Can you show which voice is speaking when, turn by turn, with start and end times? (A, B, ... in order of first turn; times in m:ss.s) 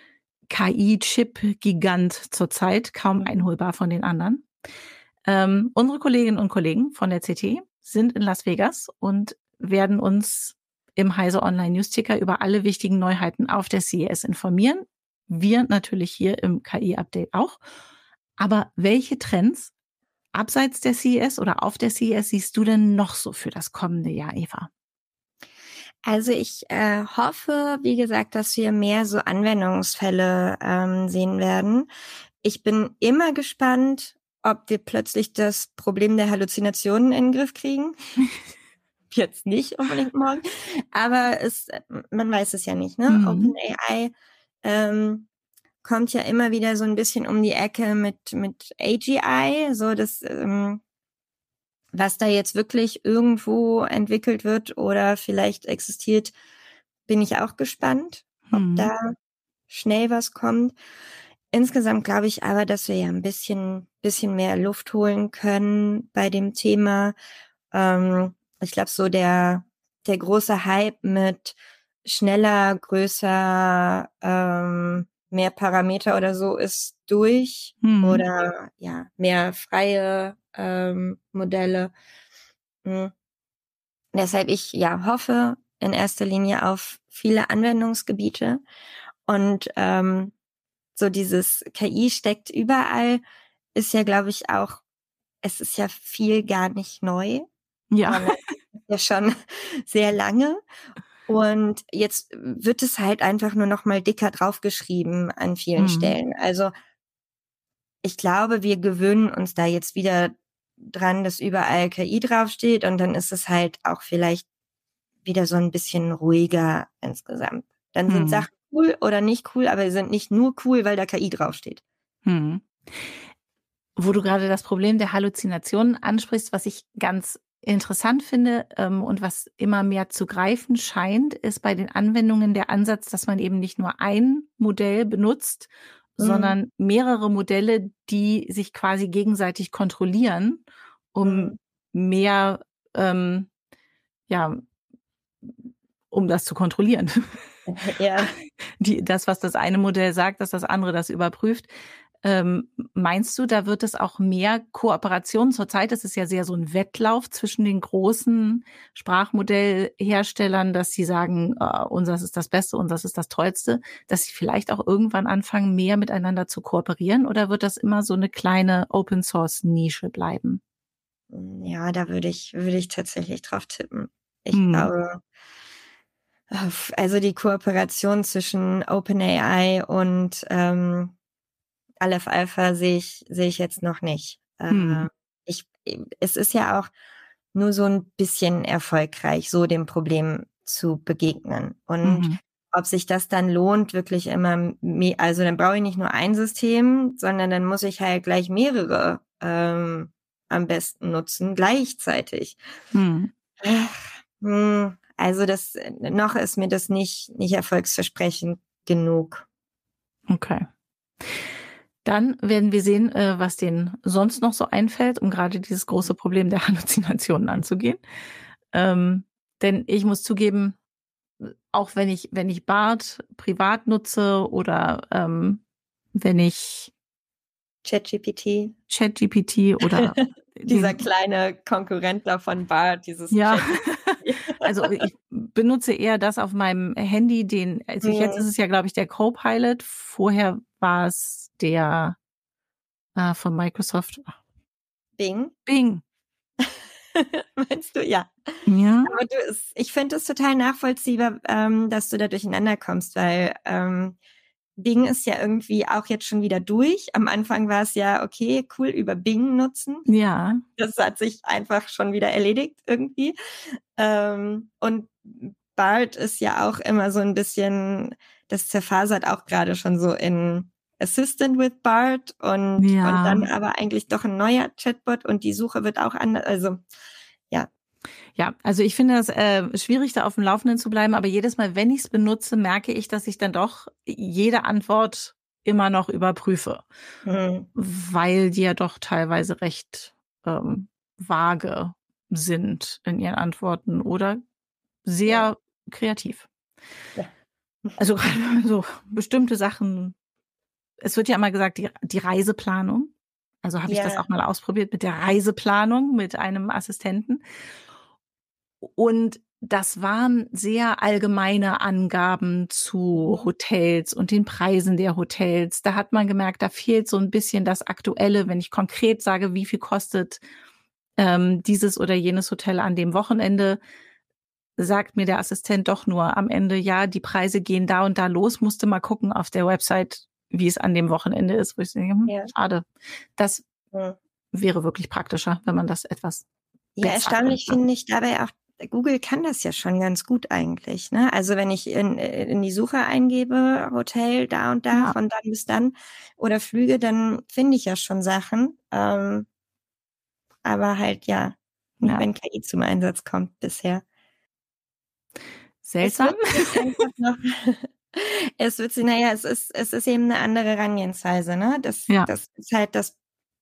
0:00.5-0:04.5 A
0:03.2-0:03.4 B
0:05.2-0:17.6 A
0:18.4-0:19.7 A
0:20.3-0:24.7 A
0:26.1-0:31.9 B
0:32.4-0:38.0 B
0:39.1-0:44.1 B
0:43.1-0:43.5 A
0:44.6-0:45.3 B
0:45.8-0:50.8 B
0:51.9-0:56.3 B
0:57.1-0:59.2 B
0:58.5-0:58.9 A
0:59.7-1:00.8 B
1:01.5-1:07.2 B
1:07.7-1:21.9 B
1:17.8-1:18.2 A
1:22.8-1:23.1 B
1:24.1-1:28.6 B
1:29.3-1:30.3 B
1:31.0-1:33.2 B
1:33.8-1:34.8 B
1:35.4-1:37.5 B
1:37.9-1:38.6 A
1:38.1-1:40.6 B
1:41.3-1:46.7 B
1:45.8-1:46.2 A
1:48.0-1:54.4 B
1:55.2-2:01.8 B
1:58.1-1:58.5 A
2:02.3-2:03.1 A
2:04.0-2:23.5 A
2:16.2-2:16.6 B
2:21.2-2:21.6 B
2:24.3-2:24.6 A
2:26.1-2:27.3 A
2:27.7-2:28.3 B
2:28.8-2:31.7 A
2:32.2-2:50.6 A
2:51.3-2:55.2 B
2:54.5-2:54.9 A
2:56.5-3:01.1 B
3:02.0-3:06.9 B
3:04.7-3:05.1 A
3:07.5-3:22.6 B
3:12.0-3:12.4 A
3:22.9-3:23.3 A
3:23.6-3:29.4 B
3:30.3-3:30.7 A
3:32.0-3:38.0 A
3:38.7-3:40.8 A
3:41.4-3:45.6 A
3:46.2-3:46.9 A
3:47.8-3:48.8 B
3:48.9-3:51.0 A
3:50.0-3:55.0 B
3:53.3-4:02.2 A
3:58.0-3:58.4 B
4:03.2-4:04.4 A
4:05.2-4:05.5 B
4:05.7-4:06.0 A
4:06.6-4:14.2 B
4:08.7-4:09.2 A
4:14.8-4:20.1 B
4:20.1-4:20.6 A
4:20.8-4:36.8 B
4:32.8-4:33.5 A
4:38.4-4:46.9 A
4:47.2-4:47.7 B
4:47.8-4:54.4 A
4:55.0-4:56.5 A
4:58.0-5:00.2 A
5:01.0-5:07.4 A
5:03.9-5:04.3 B
5:08.8-5:20.4 A
5:13.2-5:13.5 B
5:21.2-5:23.8 A
5:24.8-5:33.7 A
5:34.5-5:36.4 A
5:37.0-5:49.5 B
5:37.0-5:37.8 A
5:50.6-5:54.0 B
5:55.8-5:57.0 A
5:56.0-6:03.2 B